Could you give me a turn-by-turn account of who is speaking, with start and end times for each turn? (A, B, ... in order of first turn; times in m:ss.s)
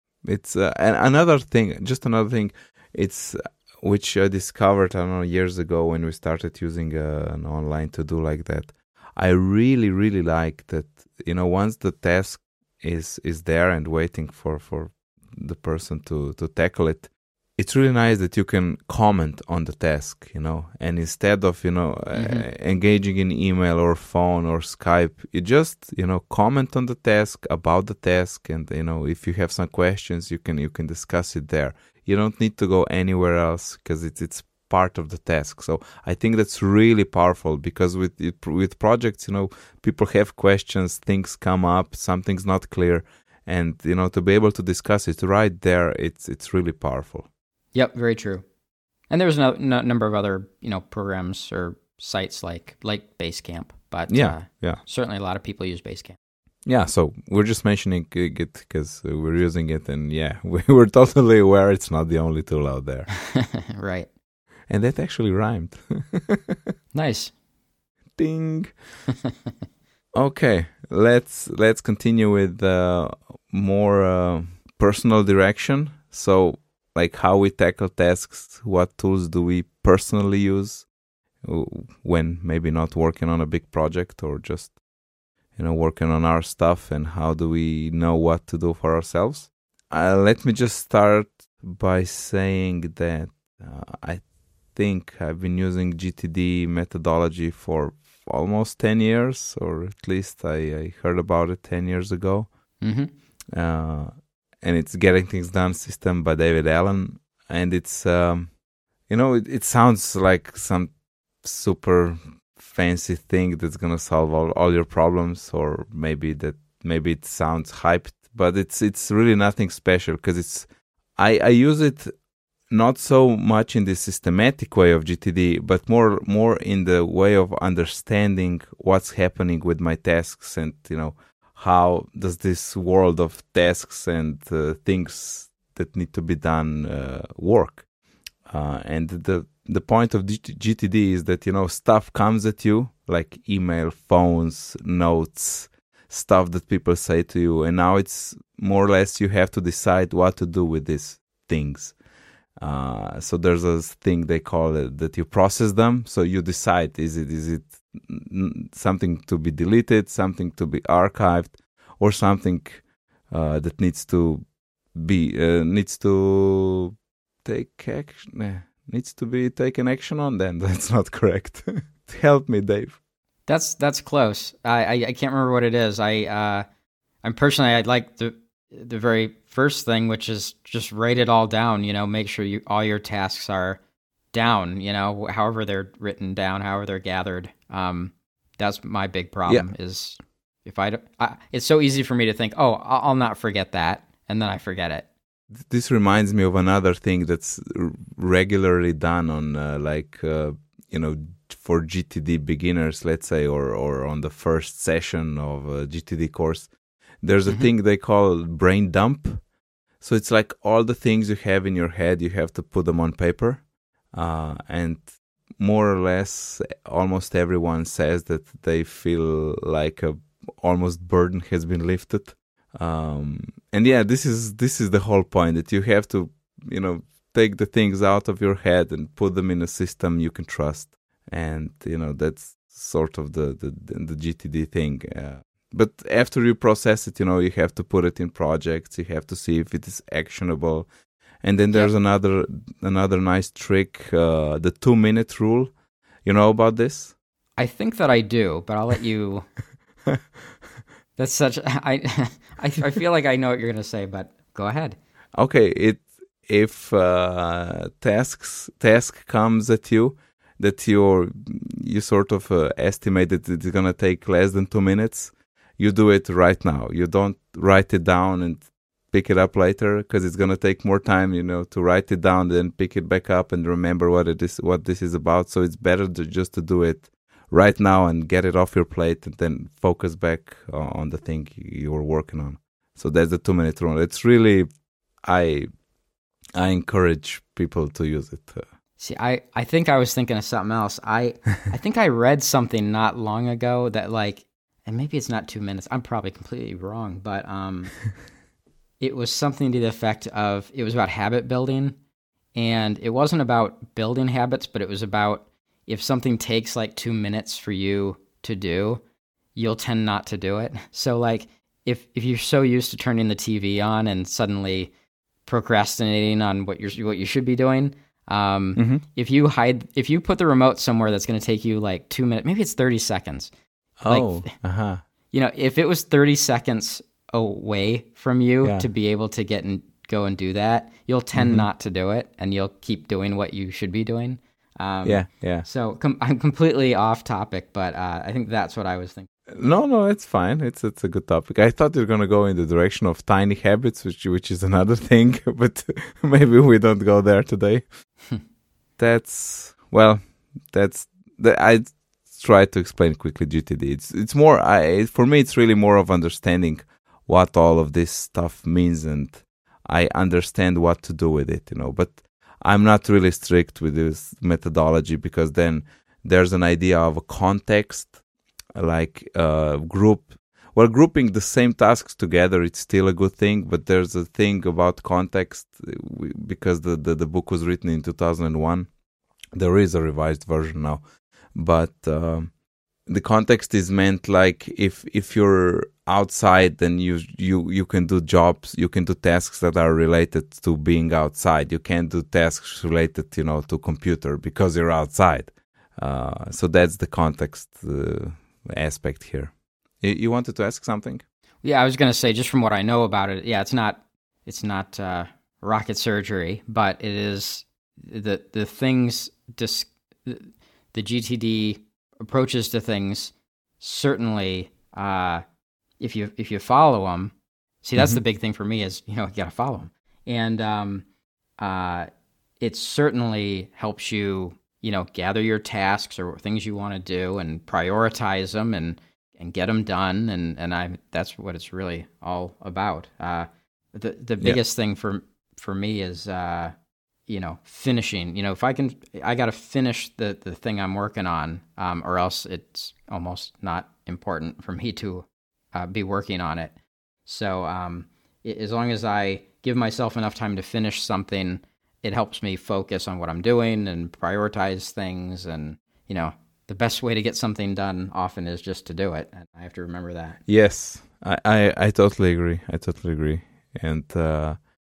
0:00.2-0:47.3 A
0:22.1-0:22.5 B
0:47.7-0:48.4 B
0:49.1-0:56.2 B
0:54.1-0:54.8 A
0:56.6-1:03.1 A
1:03.3-1:04.1 B
1:04.7-1:06.7 A
1:06.9-1:07.3 B
1:08.2-1:08.7 A
1:10.1-1:20.9 A
1:21.4-1:24.8 A
1:25.5-1:42.5 A
1:42.8-1:43.1 B
1:43.5-1:48.5 A
1:49.1-2:02.1 A
2:02.7-2:17.8 A
2:18.4-2:32.0 A
2:32.6-2:46.9 A
2:47.4-2:53.0 A
2:53.5-2:56.6 B
2:57.2-3:03.8 B
3:04.3-3:15.1 B
3:15.7-3:26.7 A
3:27.2-3:29.4 A
3:30.0-4:00.9 A
4:01.4-4:05.7 A
4:06.2-4:07.1 A
4:07.6-4:09.4 B
4:11.2-4:15.0 B
4:15.3-4:44.7 A
4:45.2-4:45.7 A
4:46.6-4:48.6 A
4:49.0-4:58.0 B
4:59.0-5:02.0 B
5:02.5-5:09.0 B
5:09.5-5:14.9 B
5:15.4-5:23.5 B
5:18.8-5:19.0 A
5:24.0-5:25.0 A
5:24.1-5:24.5 B
5:25.3-5:39.3 B
5:31.3-5:31.7 A
5:35.0-5:35.6 A
5:39.5-5:47.8 A
5:49.0-6:08.1 A
6:08.7-6:18.9 A
6:19.5-6:21.0 A
6:21.5-6:22.5 A
6:23.0-6:41.2 A
6:41.6-6:55.4 B
6:56.0-7:01.0 B
7:01.6-7:02.1 B
7:02.6-7:16.7 B
7:17.3-7:26.7 B
7:27.2-7:40.4 B
7:40.5-7:44.6 A